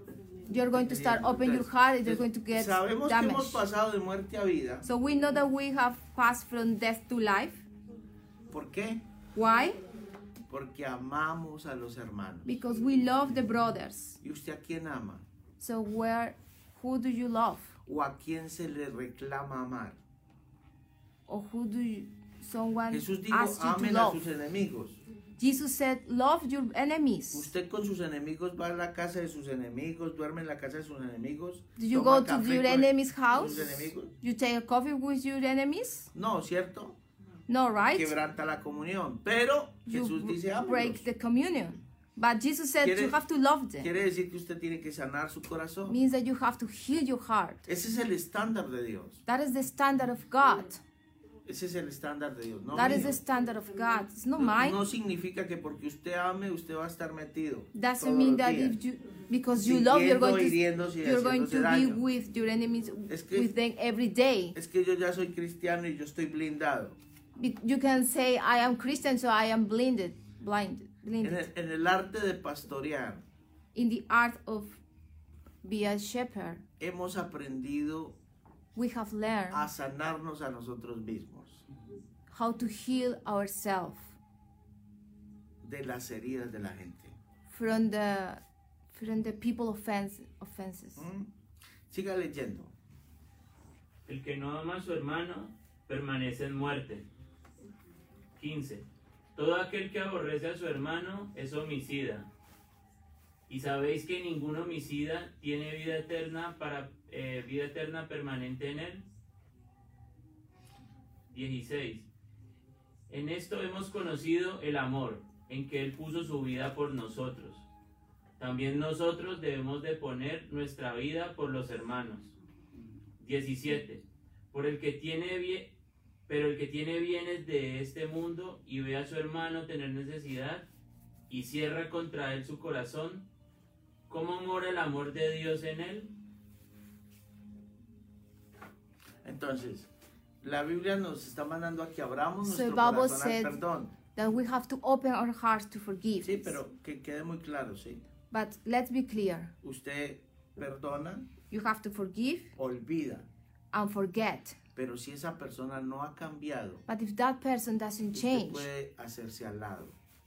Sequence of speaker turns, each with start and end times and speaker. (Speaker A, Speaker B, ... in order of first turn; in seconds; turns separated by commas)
Speaker A: 0.5-3.6, Speaker B: 0.7-4.9, Speaker A: 4.8-7.7, Speaker B: 8.5-9.0, Speaker A: 9.3-9.8, Speaker B: 10.5-12.6, Speaker A: 12.4-14.2, Speaker B: 14.2-15.2, Speaker A: 15.6-17.8, Speaker B: 17.9-20.0, Speaker A: 21.3-24.2, Speaker B: 22.9-25.0, Speaker A: 25.4-27.5, Speaker B: 27.3-34.1, Speaker A: 31.8-36.1, Speaker B: 36.1-37.0, Speaker A: 37.5-38.1, Speaker B: 37.9-41.0, Speaker A: 39.9-43.9, Speaker B: 42.8-43.2, Speaker B: 43.8-46.0, Speaker A: 45.9-47.6, Speaker B: 47.7-49.2, Speaker A: 49.2-50.8, Speaker B: 51.5-53.2, Speaker A: 52.7-54.8, Speaker B: 54.4-58.8, Speaker A: 57.7-64.5, Speaker B: 59.6-62.0, Speaker B: 63.1-63.5, Speaker B: 64.5-67.0, Speaker A: 67.3-71.5, Speaker B: 71.2-73.2, Speaker A: 73.7-74.8, Speaker A: 75.6-76.6, Speaker B: 76.8-78.2, Speaker A: 78.7-79.7, Speaker B: 79.5-81.6, Speaker A: 82.3-84.1, Speaker B: 85.6-87.2, Speaker A: 87.5-88.4, Speaker A: 88.9-91.0, Speaker B: 91.0-91.3, Speaker B: 91.9-92.7, Speaker C: 94.0-97.0, Speaker C: 98.4-102.3, Speaker C: 103.5-109.0, Speaker C: 111.3-112.1, Speaker C: 113.1-117.7, Speaker C: 118.4-122.3, Speaker C: 123.2-125.7, Speaker C: 126.3-130.7, Speaker C: 131.3-133.2, Speaker C: 134.1-136.1, Speaker B: 139.2-139.9, Speaker B: 140.4-143.9, Speaker A: 142.4-143.6, Speaker A: 144.1-146.6, Speaker B: 146.2-148.1, Speaker A: 148.3-149.5, Speaker B: 149.6-151.3, Speaker A: 151.5-152.5, Speaker B: 152.6-153.3, Speaker A: 153.7-154.6, Speaker B: 154.8-156.8, Speaker A: 156.9-158.7, Speaker B: 158.1-159.9